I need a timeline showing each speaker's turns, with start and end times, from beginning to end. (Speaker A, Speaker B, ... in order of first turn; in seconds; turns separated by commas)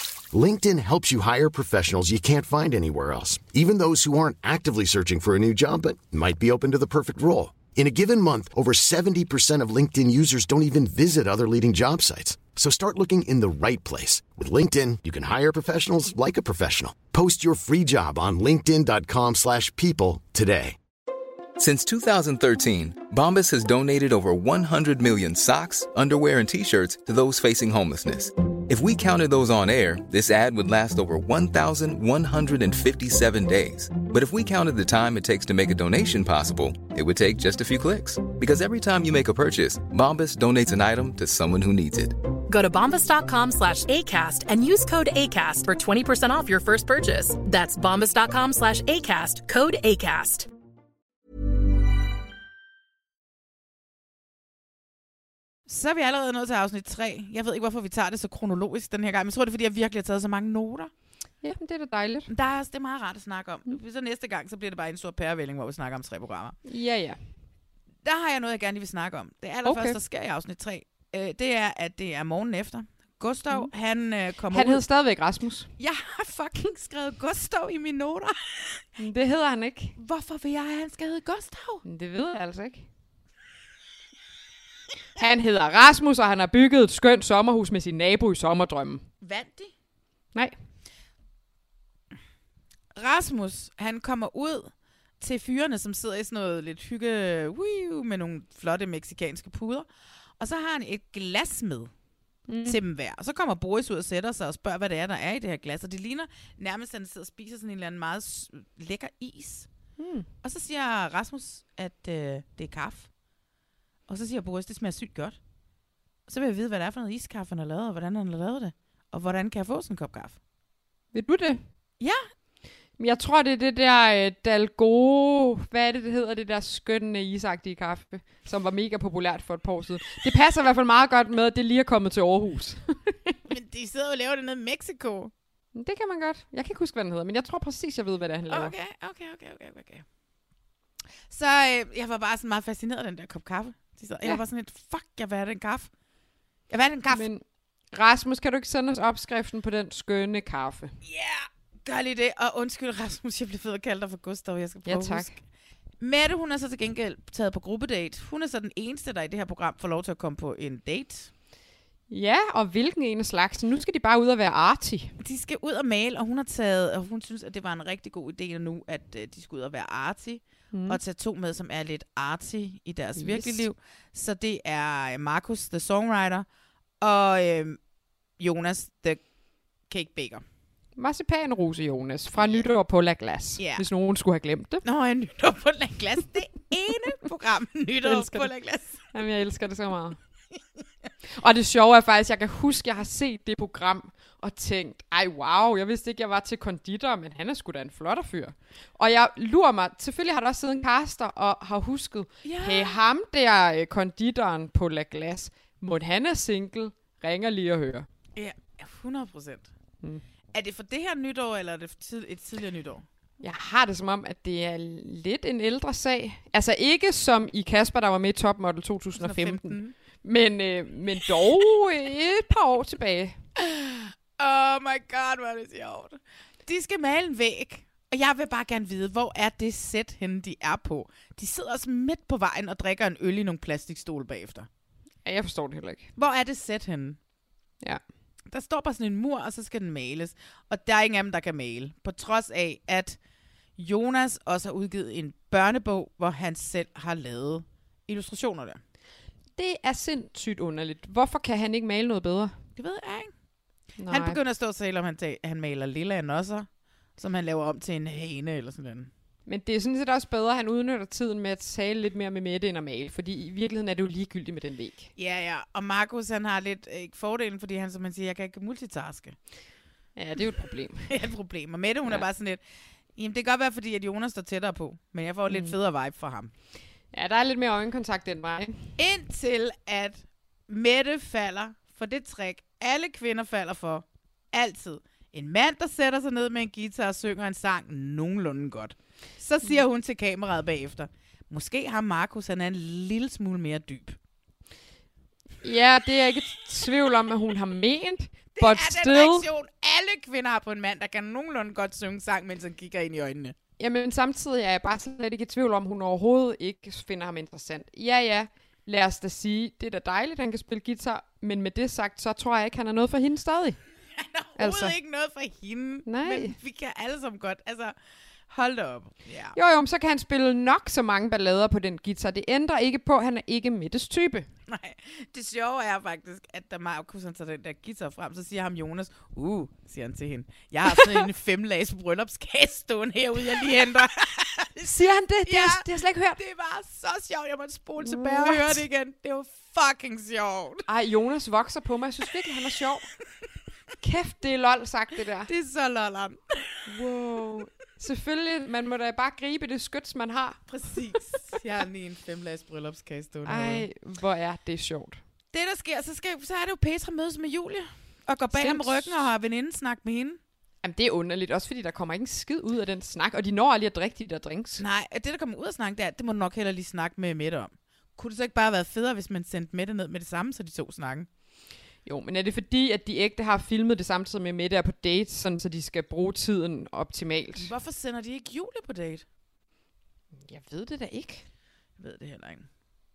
Speaker A: 0.3-20.8, Speaker B: 21.6-42.2, Speaker C: 42.5-50.5, Speaker D: 55.7-60.9, Speaker E: 61.4-62.3, Speaker D: 62.3-66.6, Speaker E: 66.7-67.2, Speaker D: 68.0-74.8, Speaker E: 69.7-70.0, Speaker E: 74.5-75.7, Speaker D: 75.8-78.8, Speaker E: 79.0-80.0, Speaker D: 80.0-81.8, Speaker E: 81.8-82.9, Speaker E: 85.2-89.1, Speaker D: 89.2-89.7, Speaker D: 93.0-99.9, Speaker D: 100.4-101.9, Speaker E: 102.5-102.8, Speaker D: 102.6-109.7, Speaker E: 110.0-110.3, Speaker D: 110.4-113.1, Speaker D: 114.1-115.4, Speaker D: 116.3-120.4, Speaker E: 121.1-121.6, Speaker E: 123.0-133.4, Speaker D: 133.5-135.3, Speaker E: 135.8-138.7, Speaker D: 138.5-140.1, Speaker D: 141.3-145.9, Speaker D: 146.7-147.3, Speaker E: 147.1-150.9, Speaker D: 151.0-155.4, Speaker E: 154.9-155.3, Speaker D: 156.0-161.3, Speaker E: 162.1-165.1, Speaker D: 165.2-176.5, Speaker E: 170.7-171.0, Speaker E: 173.2-173.7, Speaker D: 177.0-177.8, Speaker D: 178.4-179.2, Speaker D: 179.9-180.4, Speaker E: 181.0-184.8, Speaker D: 182.3-182.7, Speaker D: 183.6-183.8, Speaker D: 184.8-189.0, Speaker E: 188.1-188.5, Speaker E: 189.1-190.2, Speaker E: 191.3-208.1, Speaker D: 202.4-203.0, Speaker D: 208.4-209.7, Speaker D: 210.5-213.1, Speaker E: 213.4-223.4, Speaker D: 219.2-219.9, Speaker D: 223.6-234.7, Speaker E: 235.2-236.1, Speaker D: 236.2-237.2, Speaker D: 238.5-243.2, Speaker D: 243.8-248.8, Speaker E: 249.6-252.6, Speaker D: 252.8-253.3, Speaker E: 254.0-254.4, Speaker D: 254.1-259.1, Speaker E: 259.5-265.1, Speaker D: 265.2-269.4, Speaker E: 270.2-271.1, Speaker D: 271.0-272.6, Speaker D: 273.2-276.5, Speaker E: 275.5-275.8, Speaker E: 277.1-278.8, Speaker D: 279.0-294.2, Speaker E: 295.6-299.5, Speaker D: 298.6-303.6, Speaker E: 303.8-313.8, Speaker D: 314.2-318.0, Speaker E: 314.6-314.9, Speaker E: 316.1-316.6, Speaker D: 318.5-319.6, Speaker E: 319.6-324.5, Speaker D: 324.7-334.9, Speaker E: 334.8-336.4, Speaker D: 335.5-340.9, Speaker E: 338.0-338.8, Speaker E: 340.9-343.1, Speaker E: 344.0-345.5, Speaker D: 345.5-346.8, Speaker E: 346.9-350.6, Speaker D: 350.7-353.9, Speaker E: 353.5-355.2, Speaker D: 355.5-360.4, Speaker E: 358.5-359.3, Speaker E: 360.8-364.8, Speaker D: 364.8-371.3, Speaker E: 372.1-377.7, Speaker D: 377.6-379.2, Speaker E: 380.4-381.4, Speaker D: 382.0-382.7